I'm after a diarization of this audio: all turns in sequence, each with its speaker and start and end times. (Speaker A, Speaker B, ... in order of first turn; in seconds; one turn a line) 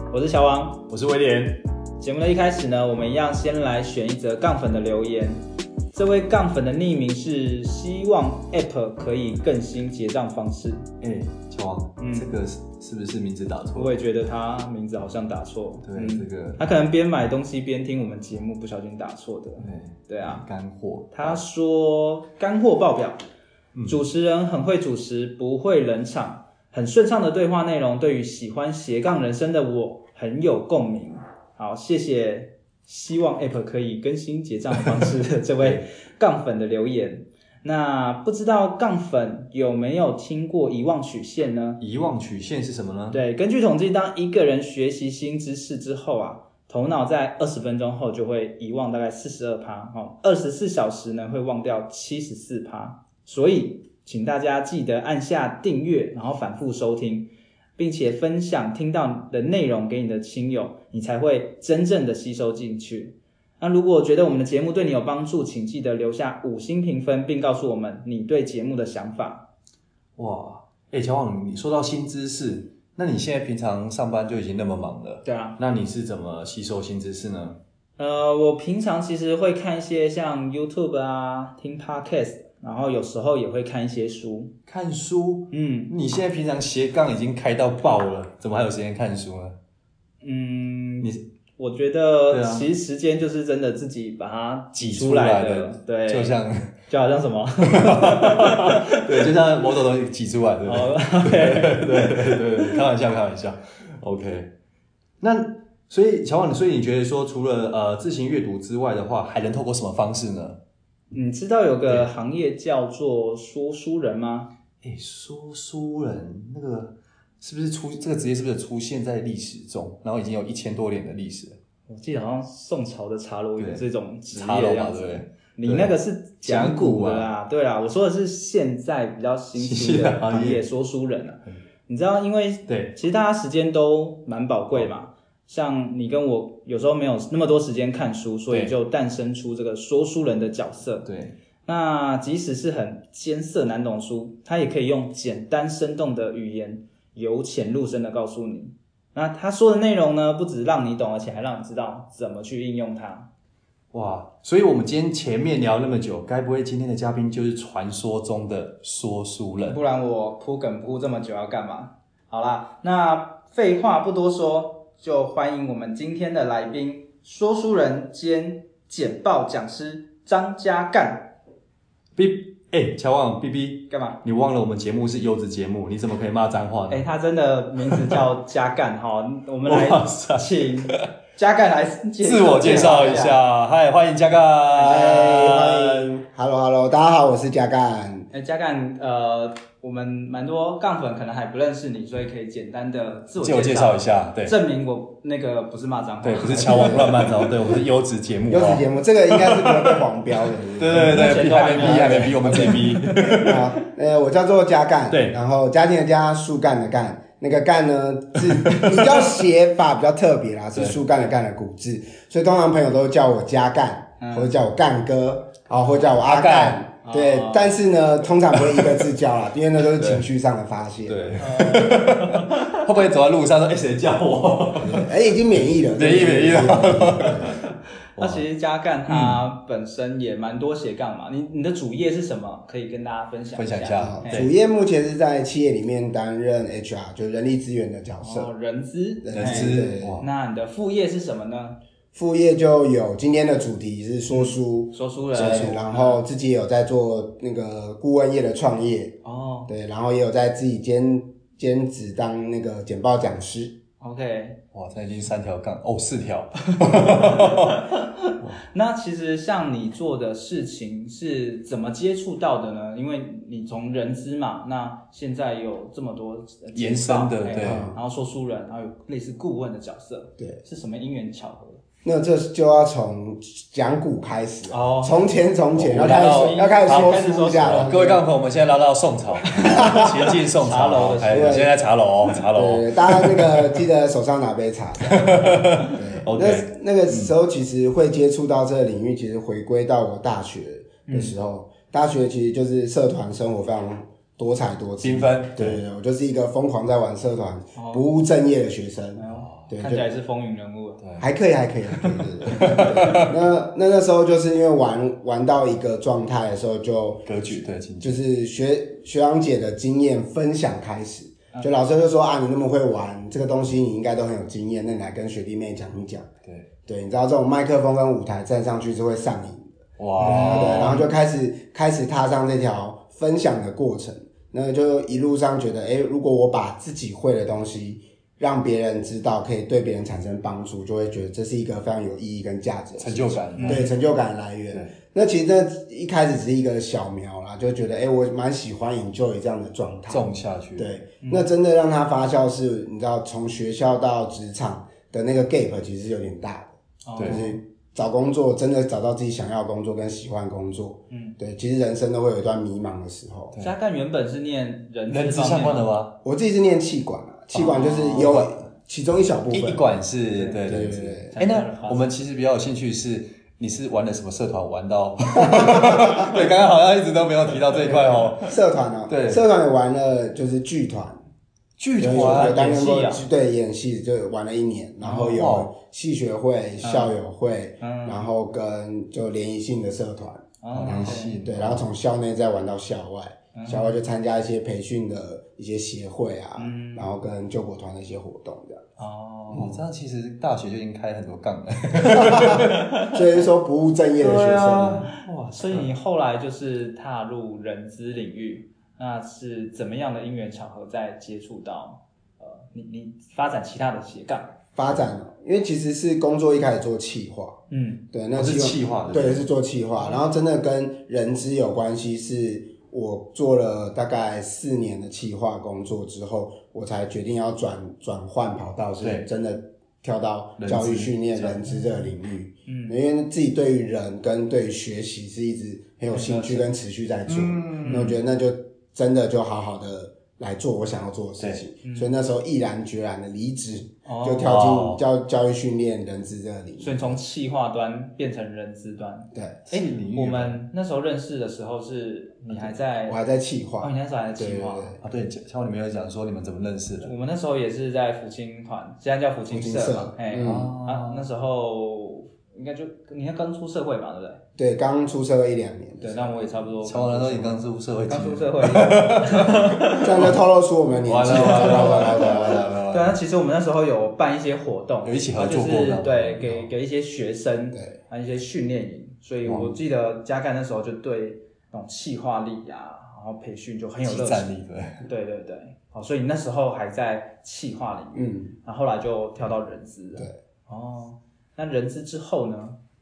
Speaker A: 0.1-0.9
Speaker B: 0.9-1.6
Speaker A: 2.0-10.9
Speaker B: 11.0-13.9
Speaker A: 12.0-12.3
Speaker A: 13.8-20.4
Speaker B: 15.8-16.6
Speaker B: 19.6-21.4
Speaker A: 21.1-23.2
Speaker B: 23.7-24.0
Speaker A: 23.9-41.8
Speaker B: 35.6-35.8
Speaker B: 41.8-43.2
Speaker A: 43.1-69.5
Speaker B: 70.2-77.6
Speaker A: 75.2-75.6
Speaker A: 78.0-84.5
Speaker B: 84.7-89.6
Speaker A: 85.5-85.9
Speaker A: 90.2-96.3
Speaker B: 92.3-92.7
Speaker B: 94.8-96.7
Speaker A: 96.9-99.1
Speaker B: 97.6-104.5
Speaker A: 100.7-102.8
Speaker B: 105.2-110.6
Speaker A: 111.1-114.5
Speaker B: 114.8-121.6
Speaker A: 121.9-141.1
Speaker B: 123.6-127.3
Speaker B: 129.6-130.6
Speaker B: 132.7-132.9
Speaker B: 141.1-141.3
Speaker A: 141.7-153.3
Speaker B: 153.9-159.8
Speaker A: 159.6-171.3
Speaker B: 172.2-177.1
Speaker A: 173.9-174.2
Speaker A: 176.9-183.4
Speaker B: 177.9-178.2
Speaker B: 179.7-181.1
Speaker B: 182.2-186.1
Speaker C: 184.8-188.3
Speaker A: 188.3-197.5
Speaker B: 193.4-194.6
Speaker B: 196.2-203.7
Speaker C: 196.6-197.2
Speaker C: 198.5-202.9
Speaker A: 200.9-203.5
Speaker C: 203.4-221.4
Speaker B: 205.1-205.4
Speaker B: 208.4-209.4
Speaker A: 214.2-214.6
Speaker B: 216.1-216.8
Speaker A: 217.0-217.8
Speaker B: 218.5-219.1
Speaker B: 219.9-220.2
Speaker B: 221.1-225.1
Speaker A: 221.4-222.8
Speaker C: 224.8-227.6
Speaker B: 225.9-228.4
Speaker A: 228.2-234.5
Speaker B: 229.1-229.4
Speaker B: 233.6-234.5
Speaker C: 234.0-238.5
Speaker A: 238.2-241.8
Speaker C: 239.2-240.2
Speaker B: 239.3-240.3
Speaker C: 242.1-249.2
Speaker A: 244.3-246.2
Speaker A: 249.2-249.7
Speaker C: 249.7-253.8
Speaker A: 254.0-254.6
Speaker B: 254.7-258.6
Speaker A: 256.8-271.8
Speaker B: 266.8-267.9
Speaker C: 267.6-268.0
Speaker C: 272.0-278.2
Speaker A: 274.7-275.4
Speaker B: 275.8-283.8
Speaker A: 275.9-278.2
Speaker A: 279.5-281.7
Speaker C: 279.6-280.1
Speaker C: 281.2-281.8
Speaker C: 282.5-300.1
Speaker B: 285.0-287.3
Speaker A: 291.1-291.4
Speaker B: 295.0-295.8
Speaker A: 297.8-298.1
Speaker A: 299.2-301.0
Speaker B: 299.3-299.7
Speaker B: 301.0-301.3
Speaker C: 301.2-307.3
Speaker B: 301.9-303.4
Speaker B: 307.3-308.2
Speaker C: 308.0-316.3
Speaker C: 316.9-353.6
Speaker B: 320.0-321.0
Speaker A: 320.2-321.1
Speaker B: 333.0-333.9
Speaker A: 333.6-333.9
Speaker B: 340.1-340.9
Speaker A: 341.2-341.5
Speaker A: 347.1-347.6
Speaker B: 347.2-347.4
Speaker A: 351.1-351.4
Speaker A: 353.6-355.9
Speaker B: 355.1-356.2
Speaker C: 356.2-359.8
Speaker A: 357.5-358.3
Speaker B: 357.5-358.6
Speaker B: 359.5-368.5
Speaker A: 360.4-360.6
Speaker C: 360.6-361.3
Speaker A: 361.2-362.1
Speaker C: 365.4-366.4
Speaker A: 367.9-368.5
Speaker C: 368.4-371.2
Speaker B: 369.1-369.4
Speaker B: 371.8-372.7
Speaker C: 372.0-388.8
Speaker A: 372.0-373.2
Speaker A: 375.1-375.4
Speaker B: 375.1-375.7
Speaker A: 376.8-377.1
Speaker A: 377.8-378.2
Speaker A: 380.6-381.4
Speaker B: 380.7-381.9
Speaker A: 383.6-384.0
Speaker A: 386.6-387.2
Speaker A: 389.0-389.8
Speaker B: 389.5-393.0
Speaker C: 392.0-395.1
Speaker B: 394.2-395.9
Speaker A: 395.1-404.6
Speaker C: 404.8-407.6
Speaker A: 407.7-408.0
Speaker C: 408.1-437.2
Speaker B: 408.4-409.4
Speaker B: 419.0-419.3
Speaker B: 420.6-421.7
Speaker A: 422.7-423.0
Speaker A: 426.1-426.7
Speaker B: 427.3-428.1
Speaker A: 427.8-428.2
Speaker A: 431.8-432.1
Speaker A: 434.1-434.7
Speaker B: 434.4-435.0
Speaker A: 436.8-443.2
Speaker C: 439.3-439.6
Speaker B: 439.7-440.6
Speaker C: 442.5-445.0
Speaker A: 443.8-445.0
Speaker B: 445.0-447.1
Speaker A: 447.0-454.4
Speaker C: 449.5-450.7
Speaker B: 450.4-451.3
Speaker C: 454.6-456.6
Speaker A: 456.0-460.3
Speaker B: 456.8-460.4
Speaker C: 460.0-462.7
Speaker B: 461.1-463.2
Speaker A: 461.3-482.8
Speaker B: 465.0-466.7
Speaker B: 469.5-469.8
Speaker B: 474.0-475.1
Speaker C: 478.1-478.6